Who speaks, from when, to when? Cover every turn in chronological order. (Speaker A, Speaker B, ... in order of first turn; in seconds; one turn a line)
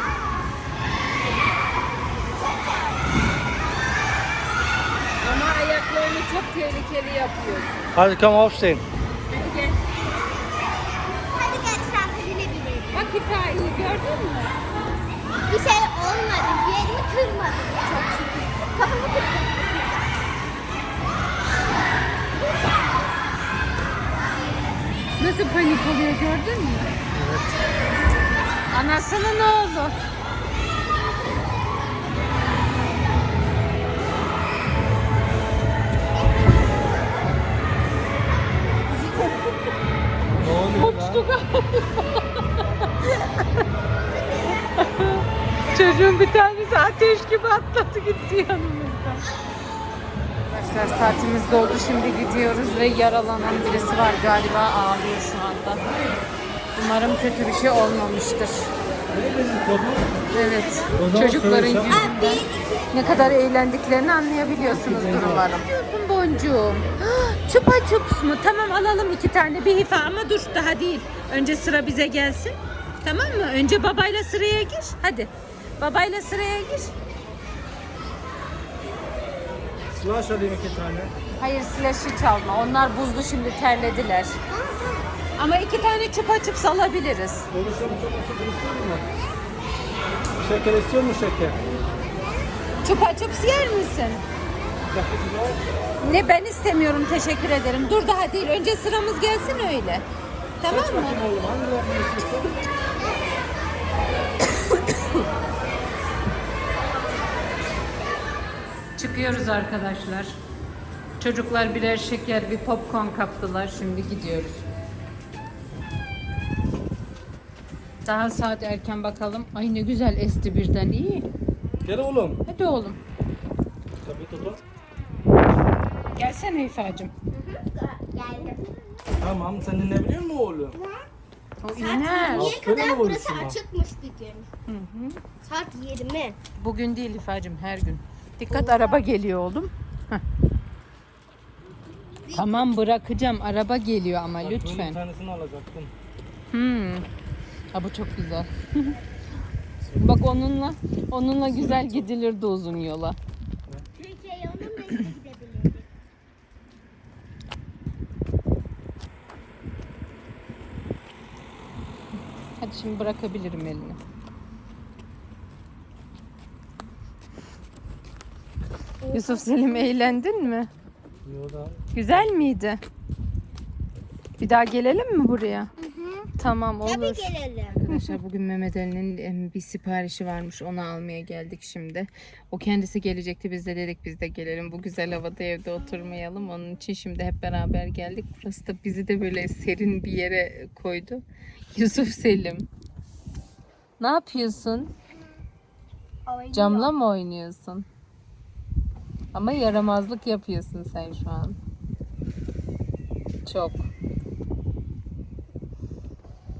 Speaker A: 5.2-7.9
Speaker B: 8.0-8.8
Speaker A: 9.3-9.8
Speaker C: 11.2-13.1
Speaker A: 12.9-14.6
Speaker C: 15.5-20.1
Speaker A: 25.2-26.9
Speaker B: 27.1-27.6
Speaker A: 28.7-29.9
Speaker B: 40.4-41.2
Speaker A: 40.8-43.6
Speaker C: 44.2-44.8
Speaker A: 44.7-49.2
Speaker A: 50.5-55.9
Speaker A: 56.8-58.7
Speaker B: 59.1-60.2
Speaker A: 60.3-76.9
Speaker B: 61.0-62.1
Speaker C: 61.9-62.7
Speaker B: 63.0-63.4
Speaker B: 64.7-65.5
Speaker B: 80.0-81.1
Speaker A: 81.4-84.3
Speaker C: 84.5-85.0
Speaker A: 85.4-87.5
Speaker B: 87.5-89.1
Speaker B: 90.4-91.6
Speaker A: 92.8-94.2
Speaker B: 94.9-95.6
Speaker A: 96.0-100.0
Speaker A: 100.6-101.2
Speaker B: 100.7-102.7
Speaker C: 102.7-103.5
Speaker A: 104.6-105.1
Speaker A: 109.0-110.3
Speaker A: 111.2-114.7
Speaker A: 118.0-121.3
Speaker B: 121.8-122.4
Speaker A: 122.5-123.0
Speaker B: 124.0-124.6
Speaker A: 126.2-127.1
Speaker C: 127.3-129.3
Speaker B: 129.2-130.8
Speaker C: 130.7-131.1
Speaker A: 131.6-132.6
Speaker C: 131.8-134.5
Speaker B: 132.3-133.6
Speaker A: 134.7-135.2
Speaker C: 135.4-136.4
Speaker A: 136.6-140.2
Speaker C: 138.5-139.0
Speaker C: 142.3-142.7
Speaker A: 142.3-145.0
Speaker B: 144.4-145.9
Speaker A: 146.5-147.1
Speaker A: 147.7-149.0
Speaker B: 149.8-150.2
Speaker A: 150.0-153.2
Speaker B: 151.4-152.1
Speaker C: 154.0-155.9
Speaker A: 162.6-164.0
Speaker C: 169.0-170.2
Speaker A: 169.1-170.7
Speaker B: 171.2-172.4
Speaker A: 171.9-172.8
Speaker A: 174.4-175.7
Speaker C: 175.8-176.3
Speaker A: 176.4-191.2
Speaker C: 176.8-178.1
Speaker A: 191.7-192.7
Speaker A: 194.0-194.9
Speaker C: 196.3-196.9
Speaker A: 196.5-197.9
Speaker A: 199.3-201.6
Speaker A: 203.4-203.9